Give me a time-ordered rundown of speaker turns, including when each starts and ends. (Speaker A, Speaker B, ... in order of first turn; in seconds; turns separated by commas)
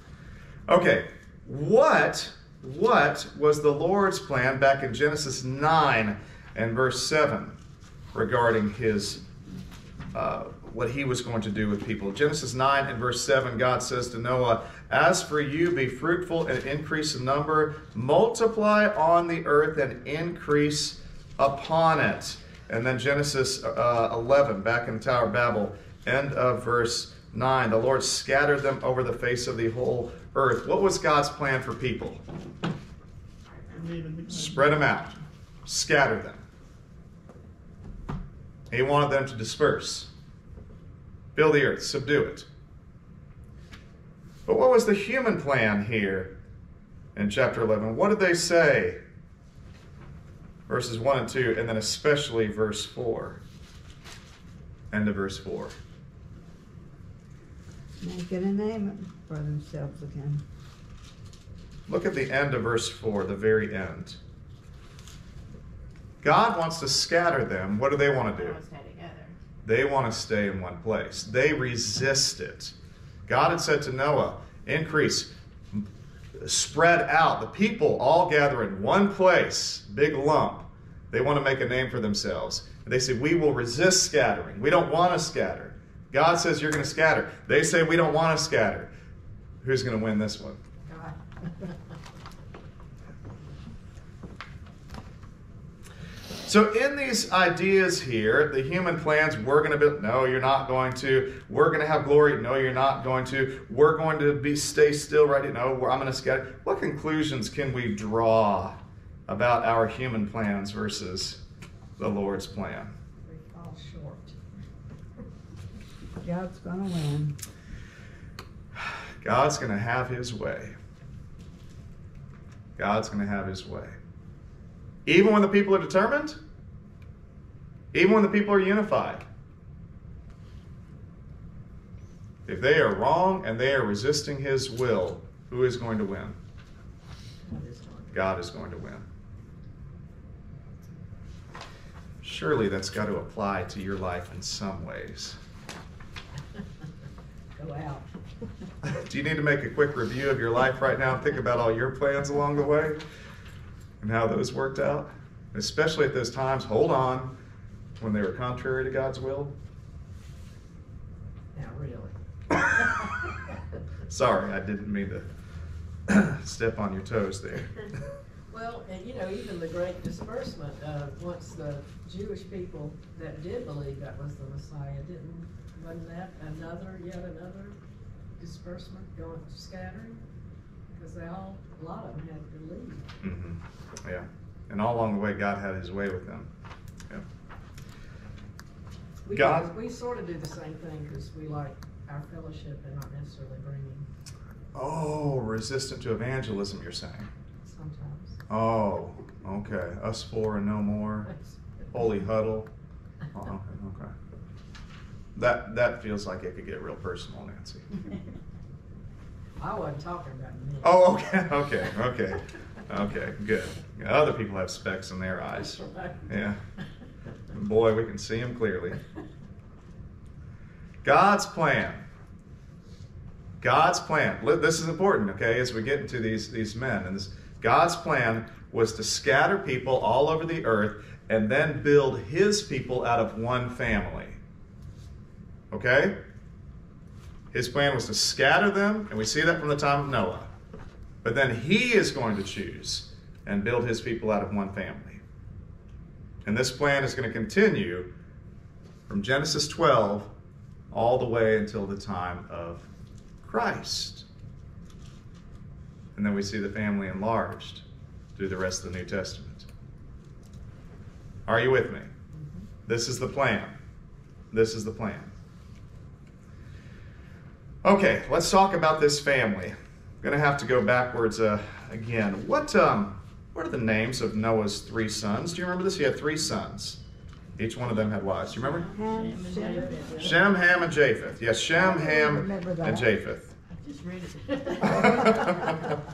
Speaker A: 0.7-7.5, Speaker A: 8.1-9.2, Speaker A: 10.1-32.2, Speaker B: 33.7-34.5, Speaker A: 34.3-36.4, Speaker A: 38.7-40.1, Speaker A: 41.4-42.5, Speaker A: 44.5-46.3, Speaker A: 47.1-49.0, Speaker A: 50.7-53.4, Speaker A: 54.9-55.8, Speaker C: 58.0-60.4, Speaker A: 61.9-64.2, Speaker A: 66.2-68.6, Speaker B: 68.3-69.3, Speaker A: 69.6-72.7, Speaker A: 73.3-75.8, Speaker A: 76.4-88.9, Speaker A: 89.6-90.6, Speaker D: 90.9-91.2, Speaker A: 96.5-111.4, Speaker A: 112.0-112.9, Speaker D: 113.2-114.5, Speaker C: 116.2-117.4, Speaker A: 118.8-120.8, Speaker A: 122.8-124.0, Speaker A: 125.1-126.4, Speaker A: 127.9-129.2, Speaker A: 132.5-136.4, Speaker D: 137.4-138.3, Speaker A: 138.1-139.0, Speaker A: 142.2-145.4, Speaker D: 147.6-148.1, Speaker A: 148.8-153.0, Speaker A: 154.0-157.3, Speaker A: 158.0-159.5, Speaker D: 161.5-162.1, Speaker A: 164.1-165.3, Speaker A: 166.1-167.8, Speaker D: 168.5-177.8, Speaker D: 178.4-180.2, Speaker D: 180.9-183.1, Speaker A: 183.2-186.5, Speaker D: 189.2-194.1, Speaker A: 189.3-189.7, Speaker A: 194.8-197.3, Speaker D: 197.6-198.4, Speaker A: 198.5-201.3, Speaker A: 201.9-202.7, Speaker A: 203.3-204.1, Speaker A: 205.3-207.9, Speaker D: 209.6-211.2, Speaker A: 210.8-216.6, Speaker D: 215.8-216.3, Speaker A: 217.5-219.0, Speaker A: 221.0-222.0, Speaker A: 223.6-234.4, Speaker A: 235.7-236.2, Speaker A: 237.5-240.5, Speaker A: 241.2-245.2, Speaker A: 246.4-248.1, Speaker A: 249.1-250.3, Speaker A: 250.9-252.9, Speaker A: 253.4-254.2, Speaker A: 256.1-257.8, Speaker A: 258.4-259.7, Speaker A: 261.5-262.1, Speaker A: 262.9-263.7, Speaker A: 264.5-265.3, Speaker A: 267.8-277.0, Speaker A: 277.6-278.9, Speaker B: 278.5-280.4, Speaker C: 278.9-280.3, Speaker D: 279.6-280.3, Speaker A: 280.2-283.5, Speaker C: 281.7-283.1, Speaker B: 283.8-285.5, Speaker C: 284.8-285.6, Speaker A: 285.1-285.9